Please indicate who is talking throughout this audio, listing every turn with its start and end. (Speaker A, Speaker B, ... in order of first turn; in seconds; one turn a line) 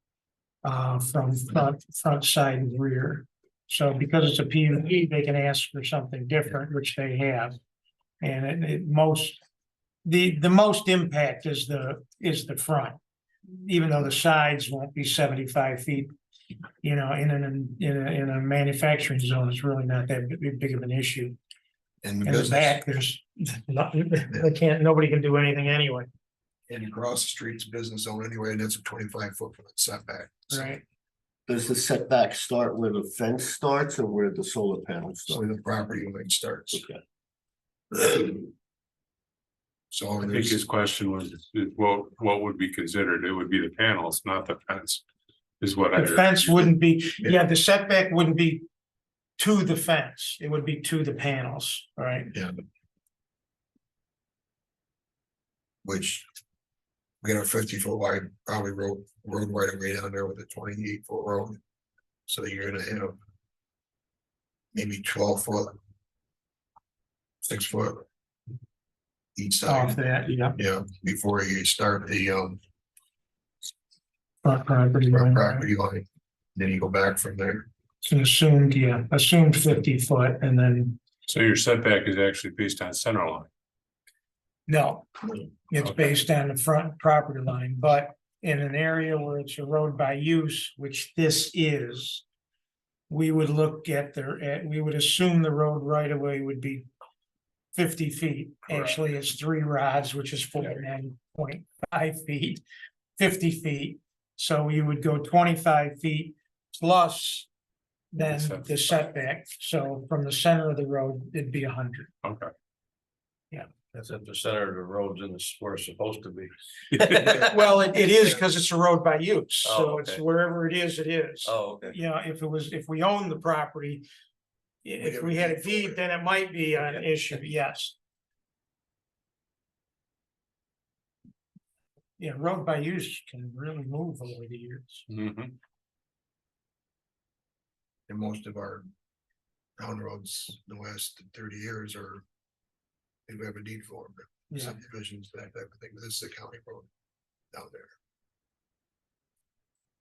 Speaker A: 0.6-7.6
Speaker A: 8.2-9.4
Speaker A: 10.1-13.0
Speaker A: 13.5-16.1
Speaker A: 16.8-21.4
Speaker B: 22.0-22.8
Speaker A: 22.2-26.1
Speaker B: 26.7-30.7
Speaker A: 30.5-30.8
Speaker C: 31.5-35.5
Speaker B: 35.3-36.8
Speaker C: 38.0-38.2
Speaker B: 39.9-40.6
Speaker D: 40.2-45.0
Speaker D: 45.6-46.6
Speaker A: 45.9-48.6
Speaker A: 49.4-52.3
Speaker B: 52.3-52.6
Speaker B: 55.8-56.3
Speaker B: 57.2-61.6
Speaker B: 62.3-63.2
Speaker B: 64.7-65.8
Speaker B: 67.5-68.0
Speaker B: 69.4-70.0
Speaker A: 69.7-70.6
Speaker B: 70.6-72.6
Speaker A: 74.4-75.7
Speaker B: 75.1-77.7
Speaker A: 78.0-81.0
Speaker D: 81.3-83.5
Speaker A: 84.7-92.2
Speaker D: 85.8-86.2
Speaker A: 93.1-96.9
Speaker A: 97.8-102.6
Speaker D: 98.7-99.0
Speaker A: 103.2-107.5
Speaker A: 108.1-112.1
Speaker D: 108.2-108.9
Speaker D: 112.2-112.5
Speaker E: 113.9-117.5
Speaker B: 117.3-118.4
Speaker A: 117.4-124.0
Speaker E: 119.6-120.2
Speaker E: 121.5-122.0
Speaker A: 124.8-128.0
Speaker B: 125.0-126.0
Speaker A: 132.2-135.1
Speaker D: 135.1-135.5
Speaker B: 138.1-138.9
Speaker B: 139.8-142.2
Speaker B: 143.3-146.9
Speaker A: 144.5-144.8
Speaker B: 147.5-147.9